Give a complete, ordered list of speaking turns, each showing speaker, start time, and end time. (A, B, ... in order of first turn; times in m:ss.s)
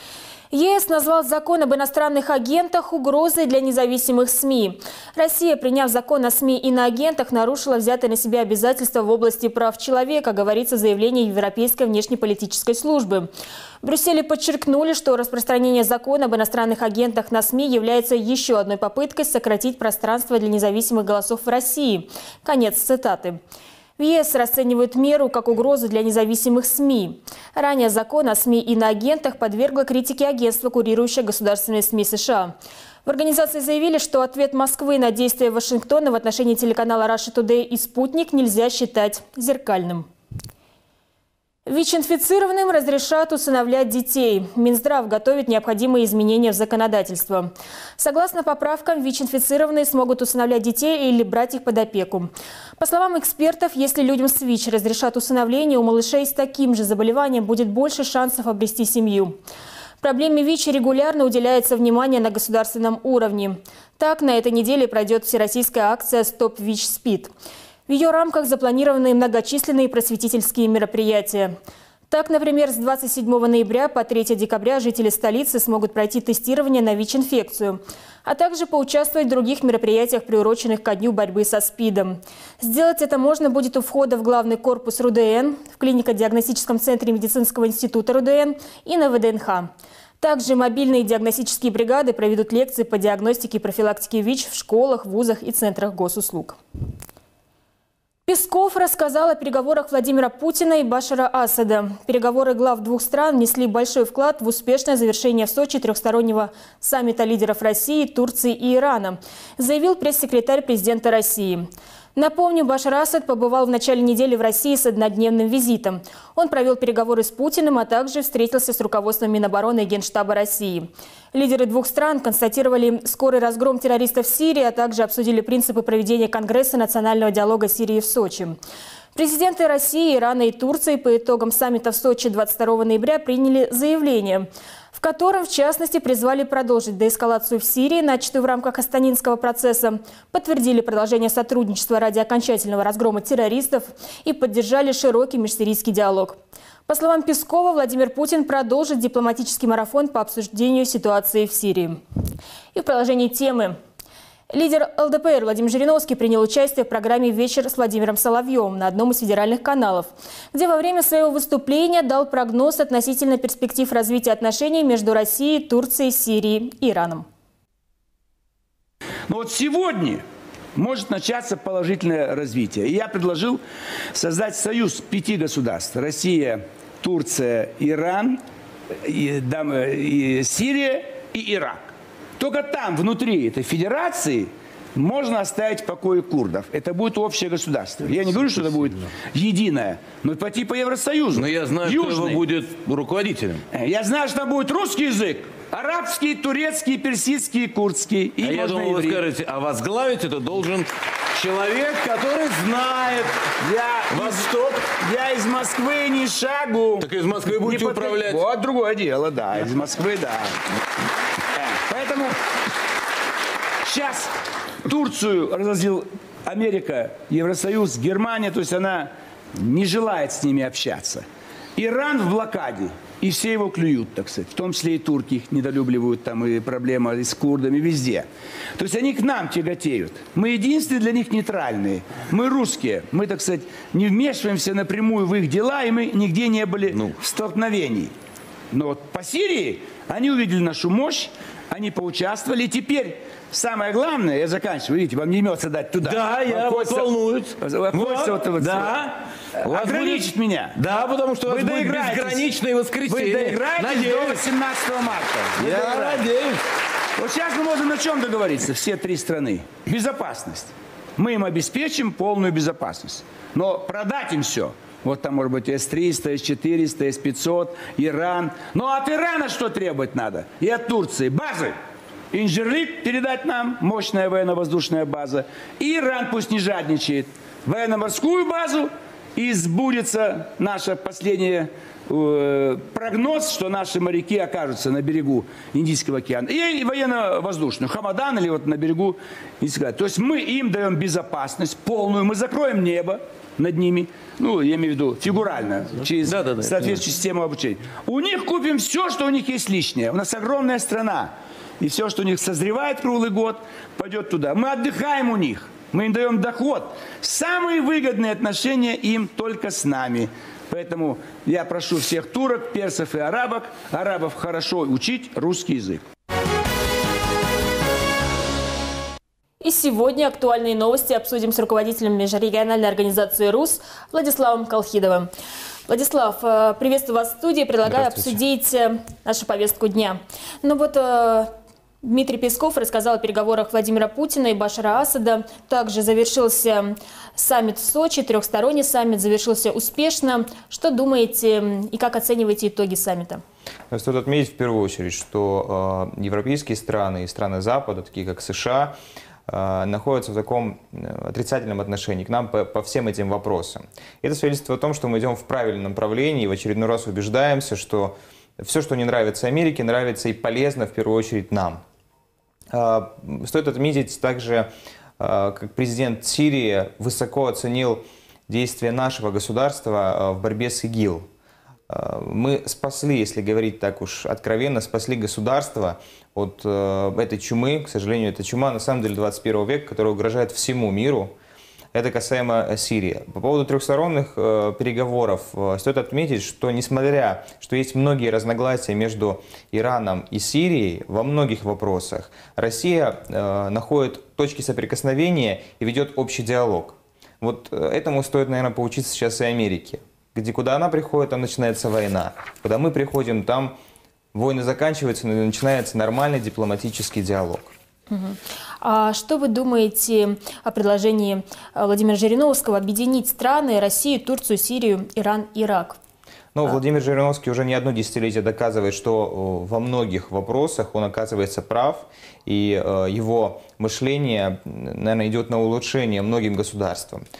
0:00.5-0:13.3 A
0:13.8-0:23.4 A
0:24.0-0:32.5 A
0:33.0-0:40.1 A
0:41.6-0:59.4 A
1:00.0-1:07.3 A
1:07.9-1:11.5 A
1:12.1-1:29.7 A
1:30.2-1:36.6 A
1:38.2-2:08.6 A
2:09.1-2:32.0 A
2:32.7-2:33.8 A
2:34.5-2:47.2 A
2:49.3-2:50.2 B
2:50.7-2:53.6 B
2:54.1-2:58.4 B
2:58.9-3:12.4 B
3:11.3-3:13.6 C
3:13.7-3:19.2 B
3:18.4-3:23.5 C
3:23.6-3:30.6 B
3:24.1-3:24.8 C
3:27.0-3:28.4 C
3:31.5-3:32.4 B
3:33.8-3:34.3 B
3:34.8-3:41.2 B
3:41.8-3:48.2 B
3:48.8-3:58.1 B
3:58.7-4:10.8 B
4:06.0-4:09.0 C
4:09.6-4:14.4 C
4:11.4-4:12.5 B
4:13.0-4:16.3 B
4:15.6-4:16.6 C
4:17.2-4:31.7 B
4:32.3-5:16.0 B
4:56.3-4:57.0 C
5:19.6-5:25.3 A
5:25.9-5:43.4 A
5:27.8-5:28.4 D
5:43.9-5:49.0 D
5:49.5-6:01.8 D
6:02.7-6:11.3 D
6:11.9-6:21.3 D
6:21.9-6:43.7 D
6:44.3-6:47.7 D
6:48.1-6:56.0 A
6:56.5-7:07.2 D